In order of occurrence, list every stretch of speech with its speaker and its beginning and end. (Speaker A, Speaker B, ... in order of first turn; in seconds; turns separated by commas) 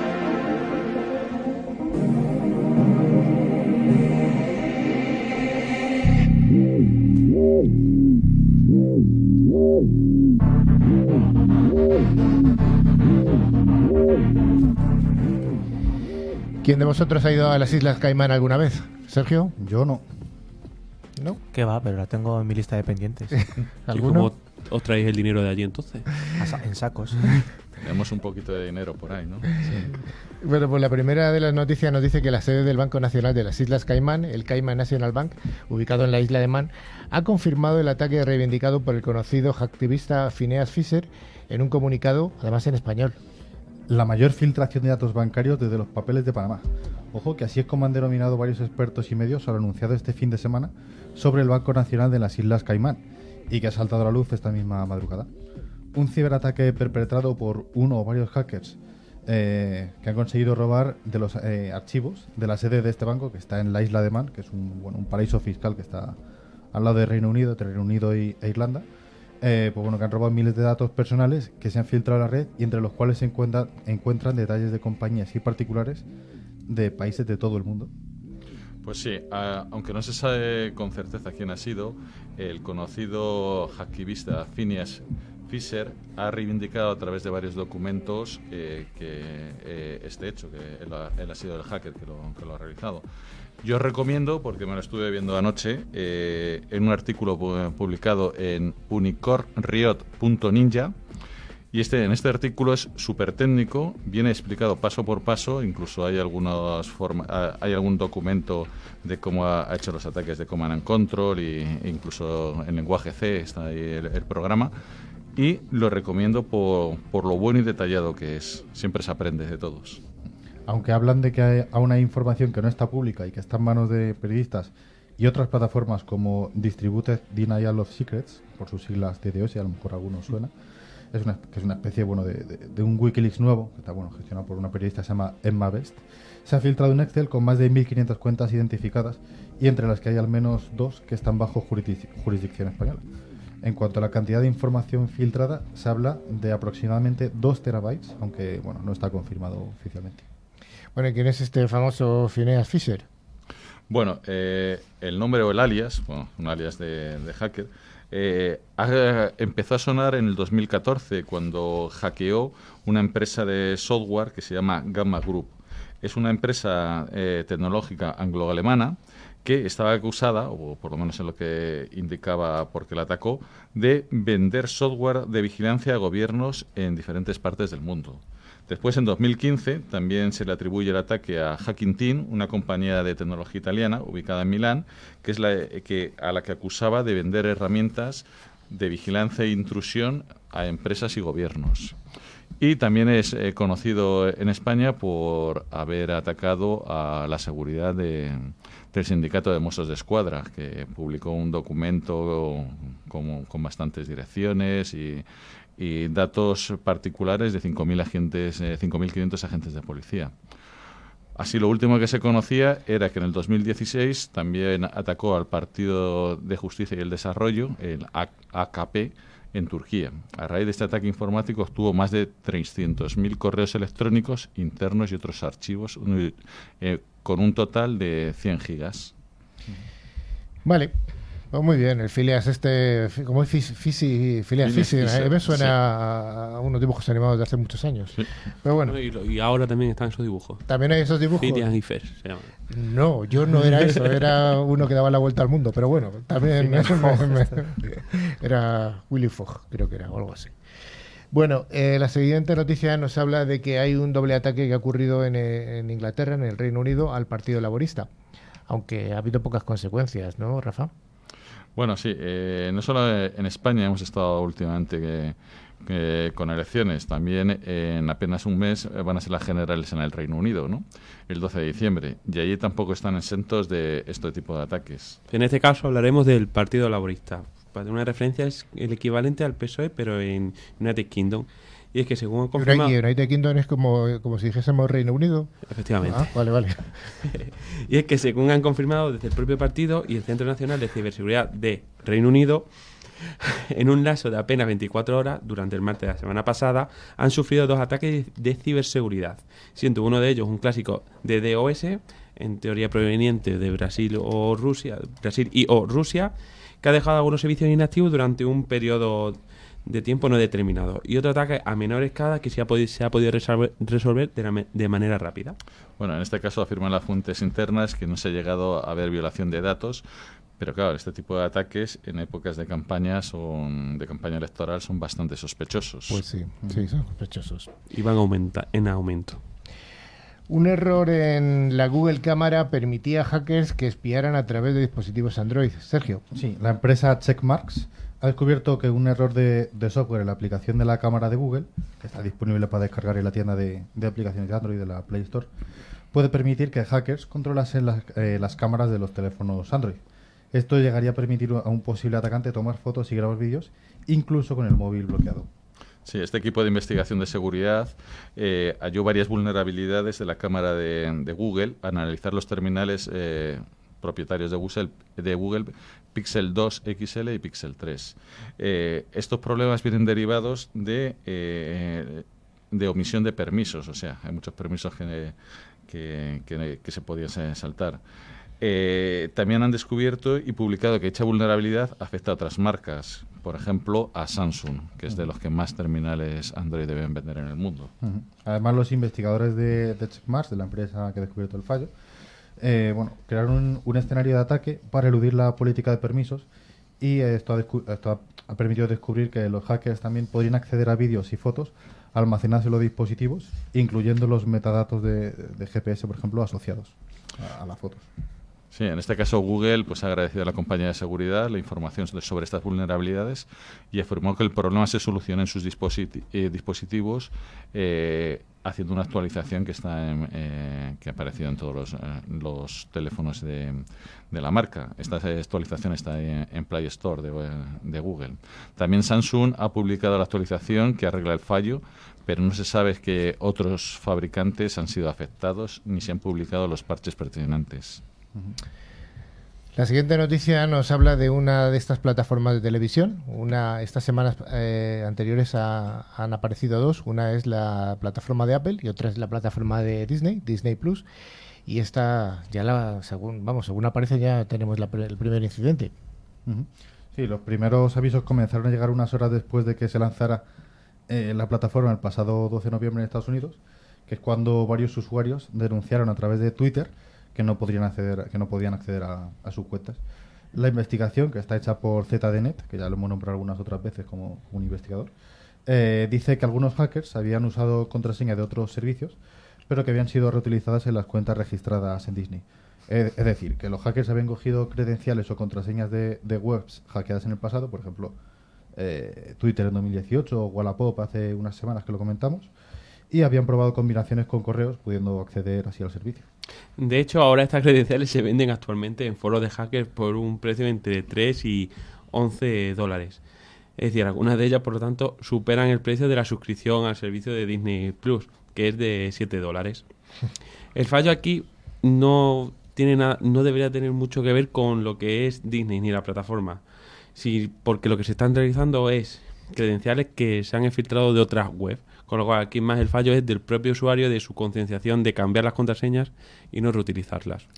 Speaker A: 16.6-19.5, Speaker B: 19.6-20.0, Speaker C: 21.5-23.4, Speaker A: 23.9-24.3, Speaker D: 23.9-26.1, Speaker C: 26.4-27.2, Speaker E: 27.8-29.5, Speaker A: 30.4-43.2, Speaker B: 43.9-55.3, Speaker B: 55.9-66.2, Speaker B: 66.7-68.8, Speaker B: 69.4-76.0, Speaker B: 76.7-77.9, Speaker E: 78.8-93.0, Speaker E: 93.6-100.9, Speaker E: 101.7-114.7, Speaker E: 115.3-120.0, Speaker B: 120.7-130.5, Speaker B: 131.1-143.1, Speaker B: 143.6-150.2, Speaker A: 150.9-153.0, Speaker E: 153.9-191.9, Speaker E: 192.6-205.2, Speaker E: 205.8-210.3, Speaker E: 211.3-229.1, Speaker A: 230.6-230.9, Speaker A: 231.5-238.9, Speaker E: 234.6-235.8, Speaker D: 238.8-240.6, Speaker A: 240.7-241.7, Speaker D: 241.3-242.5, Speaker A: 242.7-250.5, Speaker D: 246.6-247.1, Speaker A: 251.3-258.1, Speaker A: 258.7-260.9, Speaker E: 261.8-275.2, Speaker D: 275.3-282.9, Speaker A: 282.6-287.1, Speaker D: 285.6-286.4, Speaker D: 287.2-315.6, Speaker E: 316.0-320.0, Speaker E: 320.6-326.2, Speaker A: 326.1-327.7, Speaker D: 327.9-329.4, Speaker A: 330.5-336.2, Speaker B: 336.3-345.5, Speaker B: 346.1-350.0, Speaker B: 350.5-355.5, Speaker E: 356.0-375.3, Speaker E: 375.9-378.0, Speaker E: 378.6-387.9, Speaker B: 388.0-391.9, Speaker B: 392.6-396.4, Speaker B: 397.0-408.1, Speaker E: 408.7-438.0, Speaker A: 439.8-451.0, Speaker A: 451.6-455.9, Speaker B: 456.4-460.4, Speaker B: 461.1-470.0, Speaker B: 470.5-475.1, Speaker B: 475.6-488.2, Speaker B: 488.7-492.5, Speaker B: 493.1-496.3, Speaker D: 496.8-503.2, Speaker D: 503.8-509.9, Speaker D: 510.7-527.4